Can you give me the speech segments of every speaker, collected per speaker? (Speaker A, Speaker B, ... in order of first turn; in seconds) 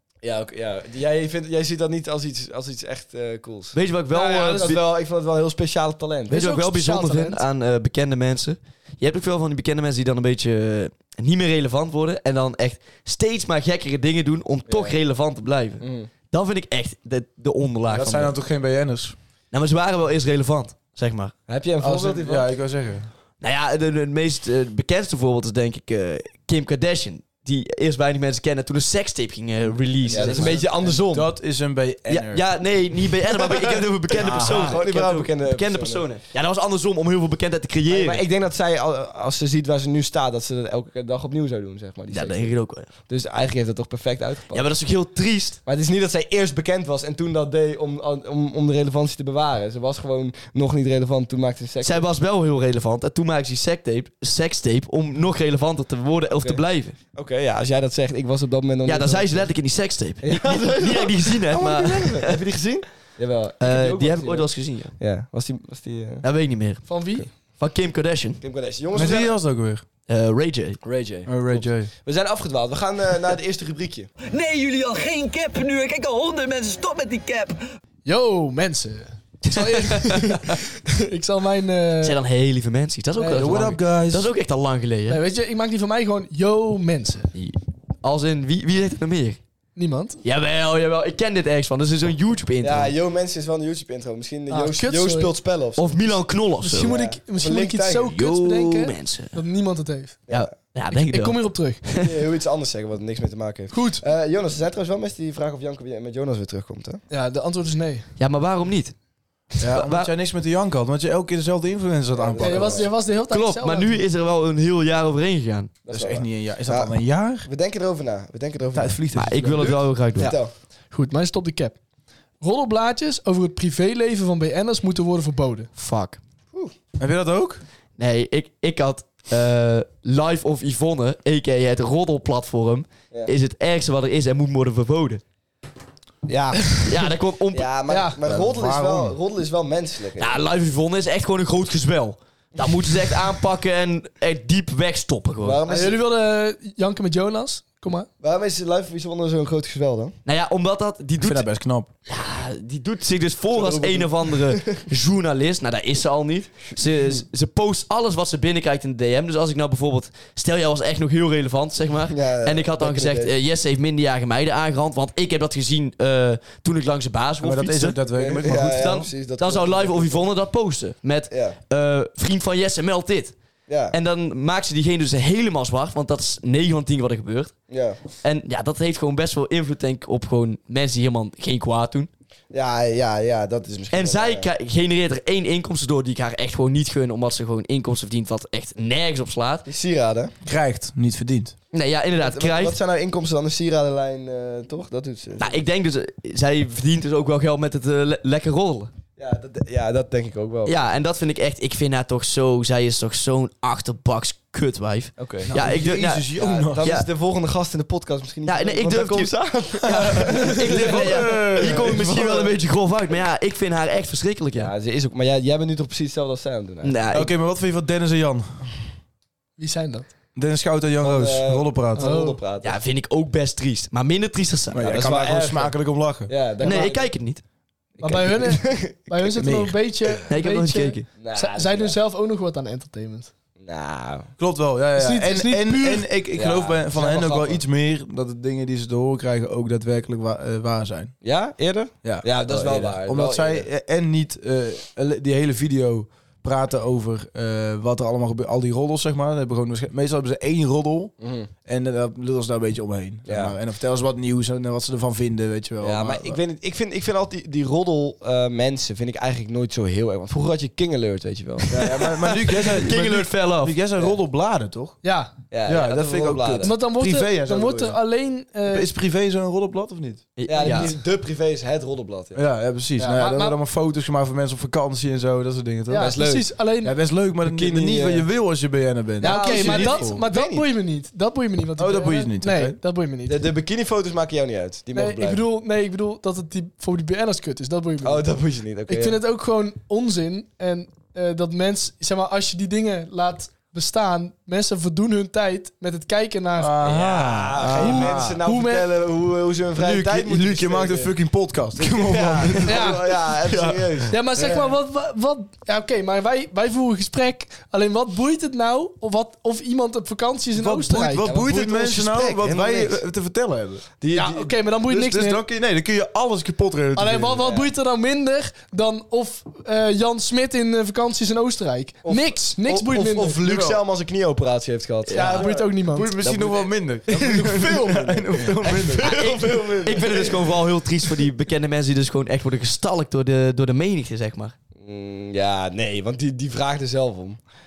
Speaker A: 0.2-3.8, 4.5-6.4, 14.7-15.0, 15.8-16.1, 21.5-22.5, 30.1-31.3, 33.5-36.0, 37.9-42.5, 43.0-44.6, 45.6-52.0, 57.1-59.5, 60.2-66.2, 68.4-69.3, 70.8-74.1, 92.6-96.2, 96.7-98.1, 102.0-107.0, 112.1-112.9, 115.8-116.9, 117.4-119.0, 119.6-120.5, 136.3-136.8, 137.5-140.3, 145.4-146.0, 148.2-150.1, 153.5-154.8, 162.1-163.3, 168.1-170.2, 171.3-171.6, 173.7-173.9, 177.7-178.0, 182.5-184.5, 189.7-190.3, 192.2-195.6, 199.2-200.8, 205.2-205.5, 206.3-212.5, 214.6-216.9, 221.0-222.7, 224.8-225.7, 226.3-227.1, 228.0-229.3, 231.2-231.9, 233.6-234.3, 236.3-237.6, 241.2-243.7, 251.2-251.5, 253.2-253.5, 255.8-262.4, 265.5-266.8, 270.5-272.4, 276.0-276.5, 277.4-278.3, 279.2-280.7, 283.2-285.4, 288.0-289.2, 296.8-301.1, 301.8-304.7, 311.2-313.0, 314.0-314.6, 317.4-317.7, 322.0-325.6, 327.1-330.5, 334.8-337.4
Speaker B: 3.7-4.8, 6.3-18.3, 19.5-21.3, 23.4-30.7, 32.1-38.2, 42.1-42.9, 44.5-45.6, 51.8-57.0, 58.8-62.4, 63.6-65.0, 66.2-68.4, 70.1-70.8, 79.5-80.4, 82.0-85.2, 87.3-89.4, 90.2-92.9, 95.8-96.9, 98.1-99.3, 100.3-102.2, 108.2-108.9, 109.5-110.1, 113.1-115.7, 119.1-120.4, 125.8-126.2, 128.0-135.2, 136.8-137.7, 140.2-145.6, 150.2-151.4, 152.1-173.3, 173.9-177.6, 178.2-182.1, 183.9-189.7, 191.7-192.8, 195.4-198.9, 200.7-207.1, 208.4-214.7, 216.8-217.3, 222.6-224.9, 226.6-227.4, 230.3-231.1, 262.4-263.8, 270.4-270.9, 325.1-325.4, 326.2-326.7, 329.0-334.5
Speaker C: 4.1-4.8, 6.3-7.4, 66.8-67.3, 78.0-82.2, 83.2-83.6, 85.1-87.3, 89.8-90.2, 94.5-95.3, 96.6-100.2, 100.9-101.8, 103.7-104.0, 107.1-108.1, 112.4-114.0, 120.9-121.8, 122.4-125.7, 137.9-138.2, 145.7-148.1, 219.6-220.1, 221.9-222.4, 228.0-233.3, 235.0-236.2, 265.0-265.4, 266.6-268.9, 270.6-270.9, 273.0-273.6, 275.9-277.0, 279.2-283.4, 284.9-288.3, 288.9-296.8, 297.7-298.9, 302.6-303.0, 304.1-311.3, 314.1-315.4, 316.9-323.6, 325.1-326.1
Speaker D: 17.9-19.1, 21.8-23.1, 30.1-32.4, 34.2-34.8, 68.9-69.8, 71.2-71.9, 83.3-84.3, 109.6-112.9, 115.9-117.5, 118.7-119.8, 127.0-127.6, 138.2-139.2, 151.2-151.9, 167.4-168.9, 190.4-191.5, 205.5-206.9, 209.9-212.0, 217.1-218.8, 220.3-222.1, 224.7-226.3, 229.3-229.8, 234.4-241.1, 242.0-251.1, 251.6-256.4, 261.7-265.0, 265.6-268.0, 268.7-270.2, 272.3-276.2, 276.8-280.2, 281.8-282.8, 296.6-298.4, 299.8-304.0, 310.5-313.8, 314.9-317.5, 323.4-323.8, 325.2-329.2
Speaker E: 74.2-77.6